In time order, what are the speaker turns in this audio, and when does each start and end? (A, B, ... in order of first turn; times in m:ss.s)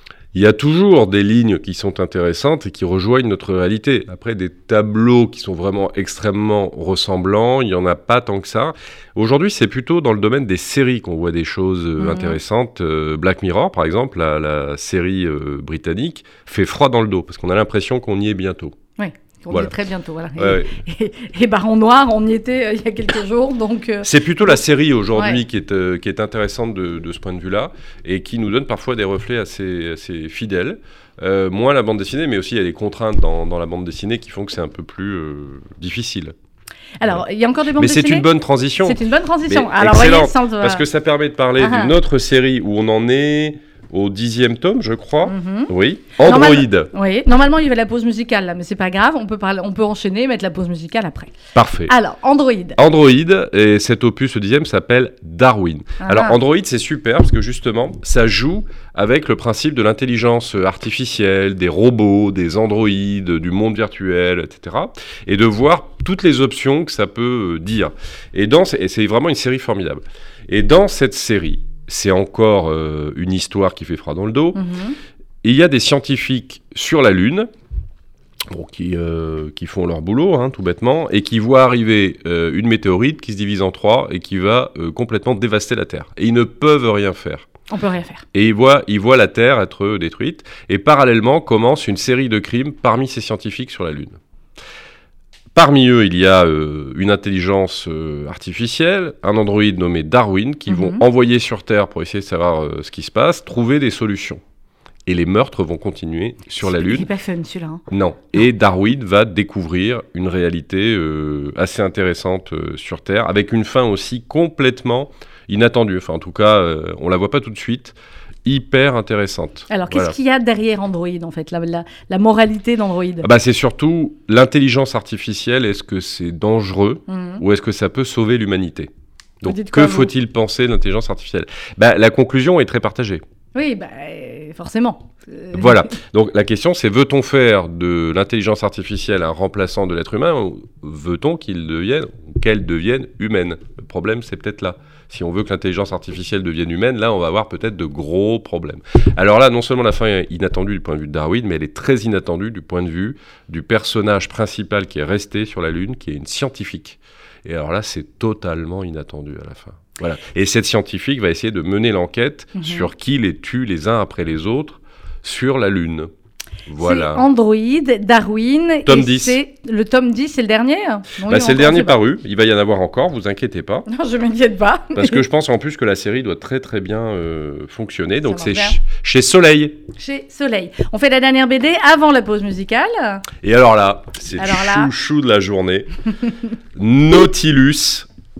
0:00.3-0:18.8 A
0:12.0-0:12.4 B
0:19.0-0:24.6 B
0:20.4-0:20.7 A
0:24.0-0:36.3 A
0:25.1-0:25.4 B
0:37.0-0:38.3 B
0:37.8-0:46.9 A
0:38.8-0:40.8 B
0:41.6-0:41.9 B
0:45.2-0:51.3 B
0:51.5-0:51.9 A
0:51.9-0:52.8 B
0:52.8-1:14.6 A
0:56.0-0:56.4 B
1:14.5-1:15.0 B
1:15.4-1:17.5 A
1:18.5-1:27.4 A
1:27.7-1:28.2 B
1:28.3-1:34.2 A
1:35.5-1:44.4 A
1:40.7-1:41.0 B
1:45.0-1:47.1 A
1:46.6-1:47.8 B
1:47.9-2:00.2 A
1:59.7-2:03.3 B
2:03.2-2:13.2 A
2:07.1-2:07.4 B
2:09.4-2:10.1 B
2:13.5-2:15.9 B
2:15.5-2:46.1 A
2:42.6-2:42.9 B
2:46.7-2:47.2 A
2:46.8-2:52.0 B
2:48.8-2:49.4 A
2:51.2-2:53.9 A
2:53.9-2:55.2 B
2:54.9-2:59.8 A
2:58.3-2:58.8 B
3:00.0-3:03.2 B
3:03.4-3:05.9 A
3:04.4-3:04.9 B
3:06.7-3:08.1 A